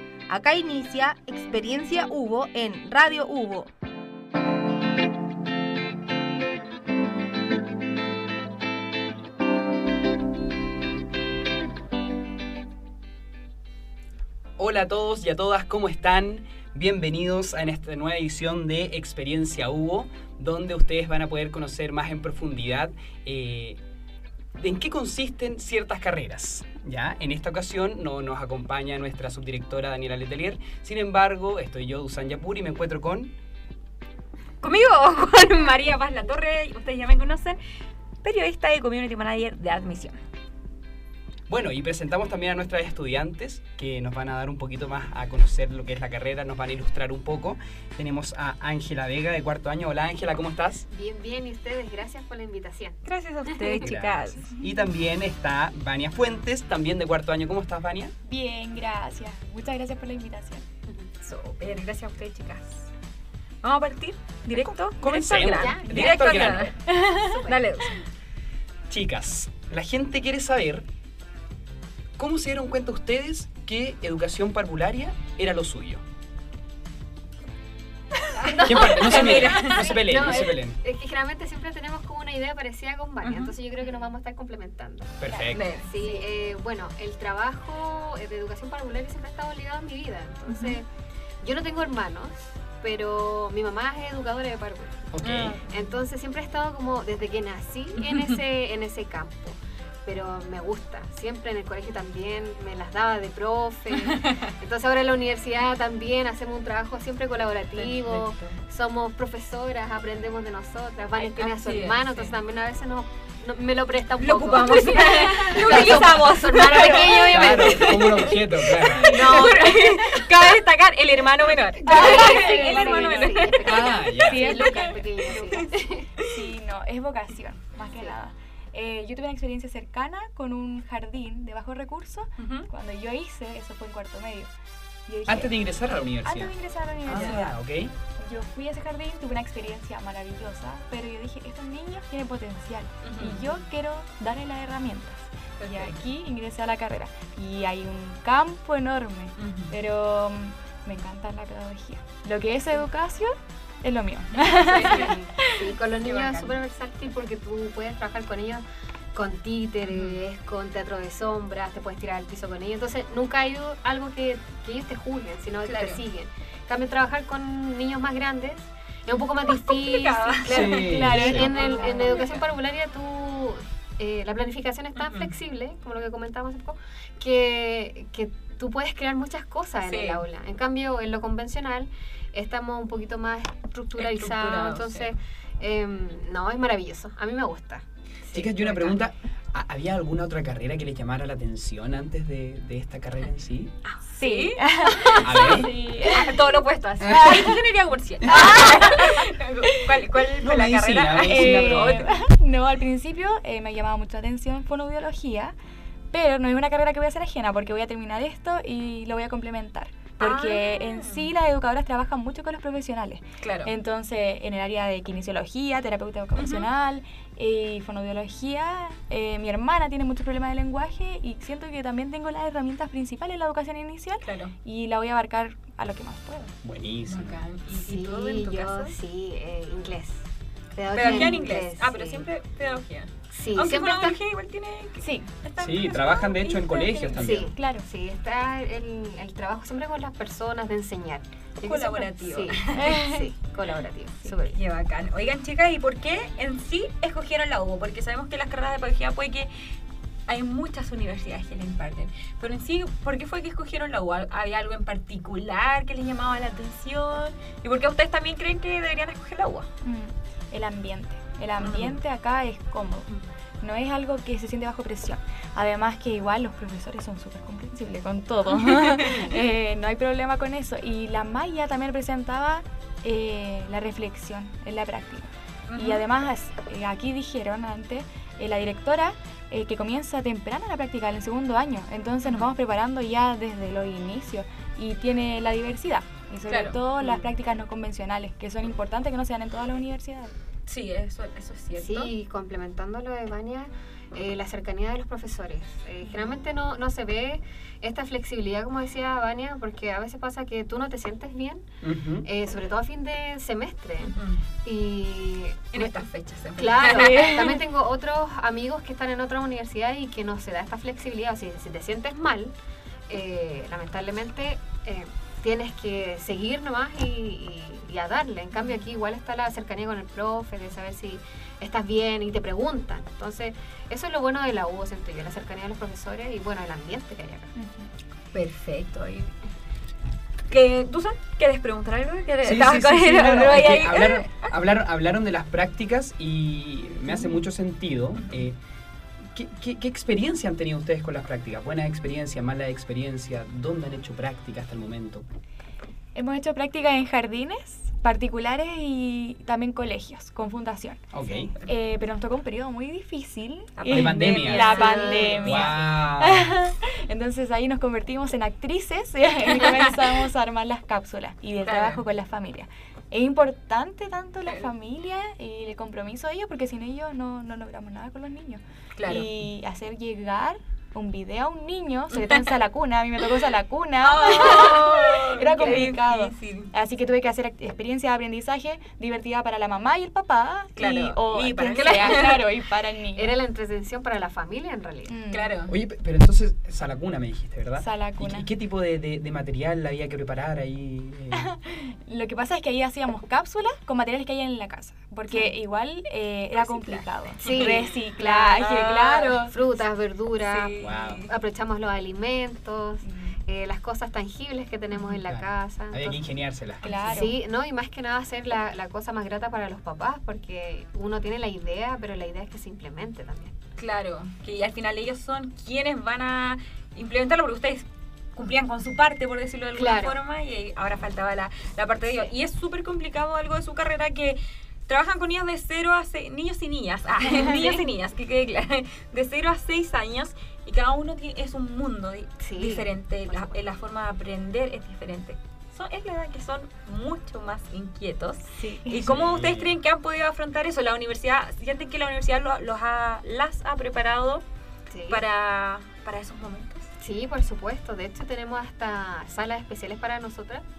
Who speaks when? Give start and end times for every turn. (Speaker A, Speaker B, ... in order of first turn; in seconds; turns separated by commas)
Speaker A: 0.3-3.7, Speaker B: 14.6-23.8, Speaker B: 24.6-33.3, Speaker C: 34.6-37.6, Speaker C: 38.2-40.2, Speaker B: 41.5-50.9, Speaker D: 50.9-53.8, Speaker C: 53.0-54.5, Speaker B: 53.8-58.1, Speaker E: 58.2-60.6, Speaker C: 61.2-62.9, Speaker C: 63.6-68.0, Speaker B: 64.5-66.8, Speaker D: 65.5-66.5, Speaker D: 67.2-67.6, Speaker B: 68.9-70.8, Speaker B: 72.2-76.0, Speaker C: 78.4-80.0, Speaker B: 78.6-80.8, Speaker D: 78.6-85.2, Speaker C: 83.2-83.5, Speaker B: 85.2-85.8, Speaker E: 85.2-86.3, Speaker C: 85.5-85.9, Speaker D: 85.8-90.8, Speaker C: 90.5-90.8, Speaker D: 91.4-95.1, Speaker B: 95.1-95.6, Speaker C: 95.2-95.8, Speaker D: 95.7-118.1, Speaker C: 98.0-98.4, Speaker C: 103.9-104.5, Speaker C: 107.7-108.6, Speaker C: 111.2-112.3, Speaker C: 114.2-123.9, Speaker E: 115.1-116.1, Speaker B: 116.9-119.3, Speaker E: 118.8-120.0, Speaker D: 119.1-120.2, Speaker D: 121.8-126.1, Speaker E: 121.8-125.7, Speaker B: 123.6-124.8, Speaker C: 125.3-125.6, Speaker E: 126.2-134.5, Speaker C: 132.4-132.7, Speaker E: 135.1-137.6, Speaker B: 135.3-136.5, Speaker B: 137.0-137.9, Speaker C: 137.1-137.4, Speaker E: 138.2-155.6, Speaker C: 143.0-143.6, Speaker C: 145.6-146.0, Speaker C: 149.4-149.7, Speaker C: 154.3-155.2, Speaker D: 154.7-188.9, Speaker C: 156.0-156.6, Speaker C: 159.9-160.2, Speaker C: 165.6-166.0, Speaker C: 169.5-172.5, Speaker B: 170.4-171.6, Speaker E: 170.6-172.3, Speaker C: 174.9-175.3, Speaker C: 179.8-180.2, Speaker C: 183.9-185.1, Speaker B: 188.3-193.7, Speaker C: 193.8-202.2, Speaker E: 194.2-197.5, Speaker B: 195.2-195.7, Speaker B: 197.1-197.4, Speaker E: 198.2-199.9, Speaker B: 200.4-202.1, Speaker E: 201.2-205.5, Speaker E: 206.1-226.5, Speaker C: 210.2-211.3, Speaker C: 213.4-213.7, Speaker C: 216.4-216.7, Speaker C: 224.2-224.5, Speaker B: 226.6-227.4, Speaker C: 227.1-228.9, Speaker D: 227.7-232.2, Speaker C: 230.9-236.4, Speaker E: 231.0-231.4, Speaker D: 233.3-234.2, Speaker E: 235.0-235.3, Speaker B: 235.6-237.5, Speaker E: 235.9-237.8, Speaker D: 237.2-244.6, Speaker C: 241.6-243.0, Speaker E: 242.7-243.3, Speaker C: 244.3-249.5, Speaker C: 250.3-259.7, Speaker E: 259.8-263.1, Speaker C: 261.6-262.0, Speaker E: 263.6-290.3, Speaker C: 268.8-269.2, Speaker C: 275.7-276.0, Speaker C: 286.5-286.8, Speaker C: 290.7-292.1, Speaker D: 291.8-301.7, Speaker B: 301.8-302.2, Speaker D: 302.2-306.0, Speaker C: 304.0-304.4, Speaker C: 305.7-307.6, Speaker D: 306.6-312.5, Speaker E: 307.0-307.5, Speaker D: 313.1-327.5, Speaker E: 327.5-327.9, Speaker C: 328.3-329.3, Speaker C: 330.5-334.5, Speaker B: 332.4-338.6, Speaker B: 339.3-345.3, Speaker E: 346.1-351.1, Speaker B: 351.1-351.5, Speaker E: 351.6-383.3, Speaker C: 353.8-355.7, Speaker B: 353.9-354.9, Speaker D: 354.5-355.7, Speaker B: 355.4-356.5, Speaker C: 361.6-362.0, Speaker C: 369.0-369.3, Speaker C: 372.1-372.4, Speaker C: 374.0-376.7, Speaker C: 380.8-382.4, Speaker D: 383.1-385.1, Speaker E: 385.1-385.5, Speaker C: 385.3-385.7, Speaker B: 385.7-391.5, Speaker E: 387.8-388.5, Speaker E: 391.4-399.5, Speaker C: 396.5-397.8, Speaker D: 397.4-406.2, Speaker C: 398.7-399.0, Speaker C: 400.4-401.3, Speaker B: 400.8-401.2, Speaker E: 403.0-403.4, Speaker B: 405.2-407.1, Speaker E: 406.8-407.4, Speaker D: 407.0-413.5, Speaker C: 413.8-444.4, Speaker D: 419.7-420.1, Speaker D: 422.0-422.3, Speaker D: 427.2-427.9, Speaker D: 432.4-433.6, Speaker E: 438.6-438.9, Speaker B: 439.0-439.7, Speaker D: 444.9-445.2, Speaker C: 445.1-446.9, Speaker D: 447.0-450.6